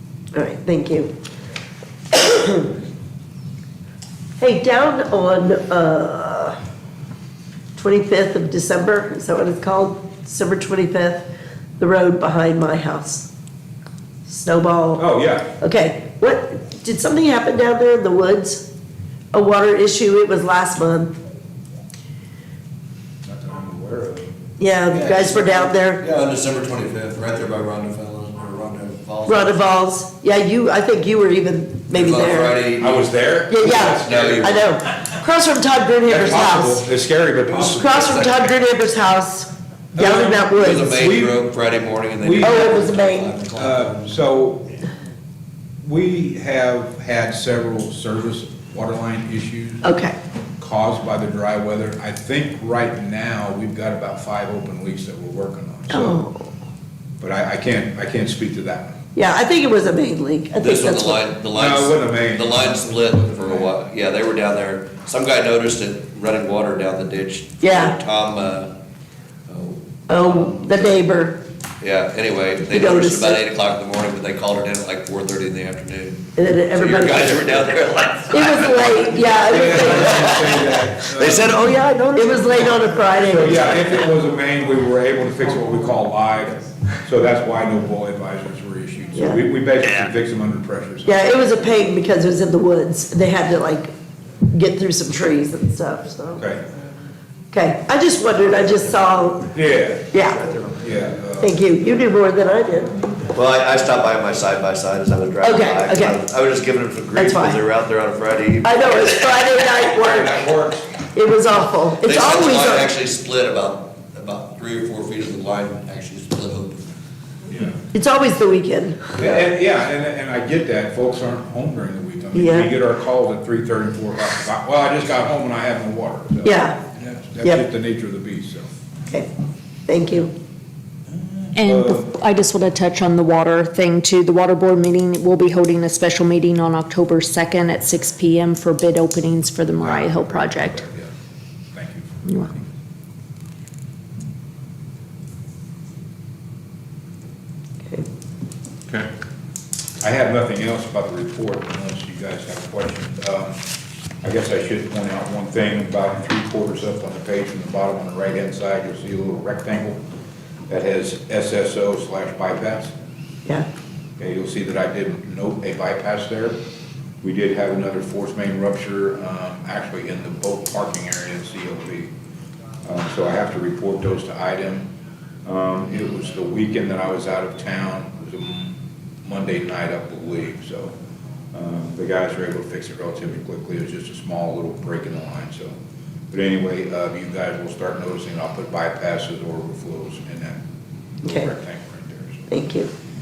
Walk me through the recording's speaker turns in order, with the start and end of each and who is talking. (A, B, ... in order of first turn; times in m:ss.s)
0:00.3-0:01.1 A
0:02.1-0:02.7 A
0:04.4-0:06.6 A
0:07.7-0:11.3 A
0:11.8-0:13.3 A
0:14.2-0:15.0 A
0:15.0-0:15.5 B
0:15.6-0:18.7 A
0:19.3-0:21.2 A
0:23.2-0:24.3 B
0:24.6-0:26.0 A
0:24.9-0:29.5 C
0:29.2-0:32.6 A
0:31.9-0:33.1 C
0:32.8-0:34.8 B
0:33.5-0:36.8 A
0:34.0-0:34.5 C
0:36.0-0:38.5 B
0:37.5-0:41.0 A
0:39.9-0:41.4 B
0:40.5-0:44.0 C
0:42.2-0:42.7 B
0:42.4-0:43.4 A
0:43.5-0:44.8 B
0:45.8-0:49.8 B
0:49.8-0:50.2 A
0:50.6-0:56.2 B
0:55.9-0:56.5 A
0:57.2-0:59.0 B
0:59.1-1:01.3 A
1:00.6-1:08.7 C
1:01.5-1:03.7 B
1:07.6-1:08.0 A
1:09.5-1:10.6 C
1:10.1-1:11.4 A
1:11.8-1:16.2 C
1:12.7-1:13.4 A
1:16.4-1:17.6 A
1:16.8-1:22.8 C
1:18.3-1:20.6 A
1:19.4-1:21.6 B
1:22.1-1:24.0 A
1:23.2-1:31.2 B
1:29.1-1:29.4 A
1:29.8-1:30.1 C
1:31.0-1:33.9 A
1:34.5-1:36.5 A
1:36.4-1:36.6 B
1:37.5-1:39.5 A
1:39.5-1:40.1 B
1:40.1-1:40.5 A
1:40.7-1:41.5 B
1:41.4-1:43.0 A
1:43.3-1:49.4 C
1:45.4-1:46.2 A
1:47.1-1:47.6 A
1:48.6-1:50.5 A
1:50.0-1:50.9 B
1:51.1-1:52.9 A
1:52.0-1:56.8 C
1:57.5-1:57.8 B
1:57.9-1:59.4 A
1:59.2-2:08.7 B
2:02.3-2:02.7 A
2:06.4-2:06.8 A
2:09.9-2:10.3 A
2:11.2-2:12.1 B
2:11.6-2:20.8 D
2:19.8-2:21.1 B
2:21.7-2:22.7 B
2:22.2-2:22.5 D
2:30.0-2:33.6 B
2:34.2-2:40.0 B
2:40.7-2:42.9 B
2:44.2-2:46.6 B
2:47.2-2:52.1 B
2:52.8-2:54.9 B
2:55.4-3:00.9 B
3:01.5-3:05.7 B
3:06.3-3:10.6 B
3:11.2-3:12.4 B
3:11.2-3:11.5 A
3:12.5-3:12.9 A